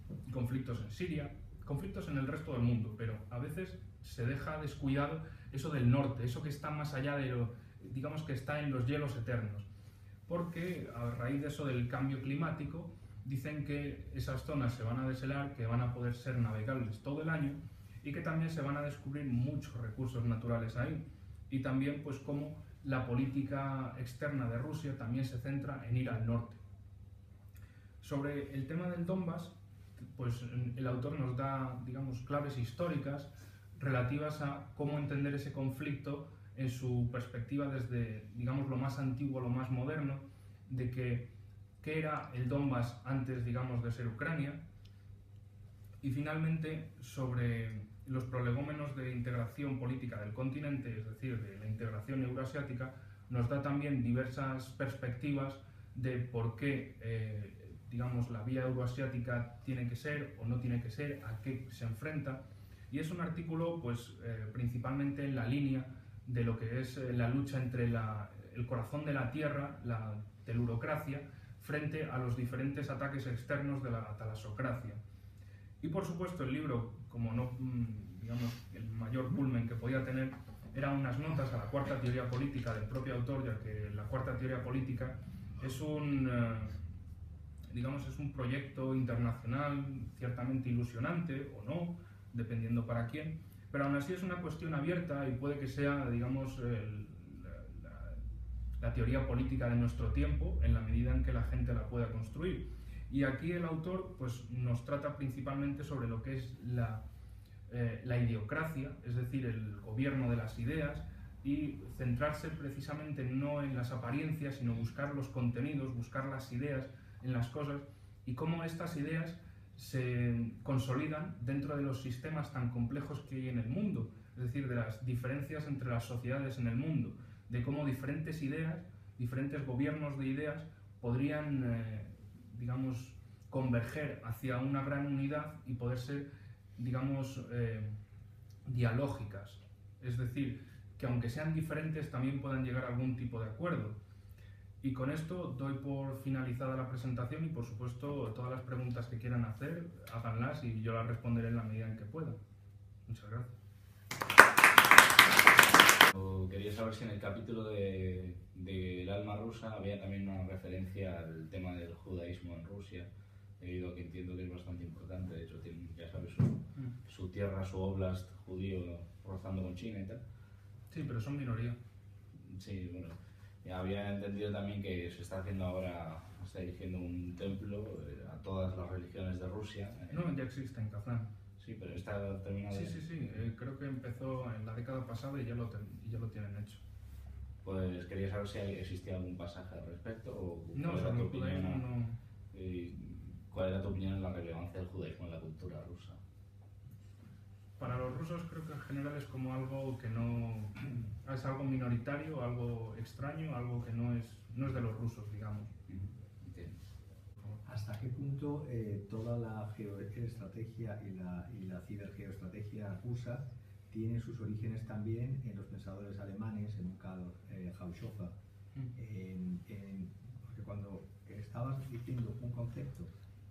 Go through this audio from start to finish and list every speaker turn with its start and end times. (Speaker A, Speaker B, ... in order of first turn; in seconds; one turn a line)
Speaker A: 0.3-9.7
Speaker A: 10.3-26.6
Speaker A: 28.0-41.3
Speaker A: 41.8-44.6
Speaker A: 46.0-75.0
Speaker A: 75.8-86.8
Speaker A: 87.7-98.2
Speaker A: 98.8-107.0
Speaker A: 107.7-138.0
Speaker A: 138.7-144.0
Speaker A: 144.8-152.4
Speaker A: 153.1-153.5
Speaker B: 156.1-163.1
Speaker B: 163.6-170.2
Speaker A: 170.9-171.8
Speaker B: 172.4-180.3
Speaker A: 180.1-181.3
Speaker B: 181.6-183.1
Speaker A: 182.7-186.8
Speaker B: 187.6-191.9
Speaker A: 190.7-192.2
Speaker B: 192.5-196.2
Speaker A: 197.8-205.7
Speaker B: 205.9-206.8
Speaker C: 207.6-218.3
Speaker C: 218.9-223.1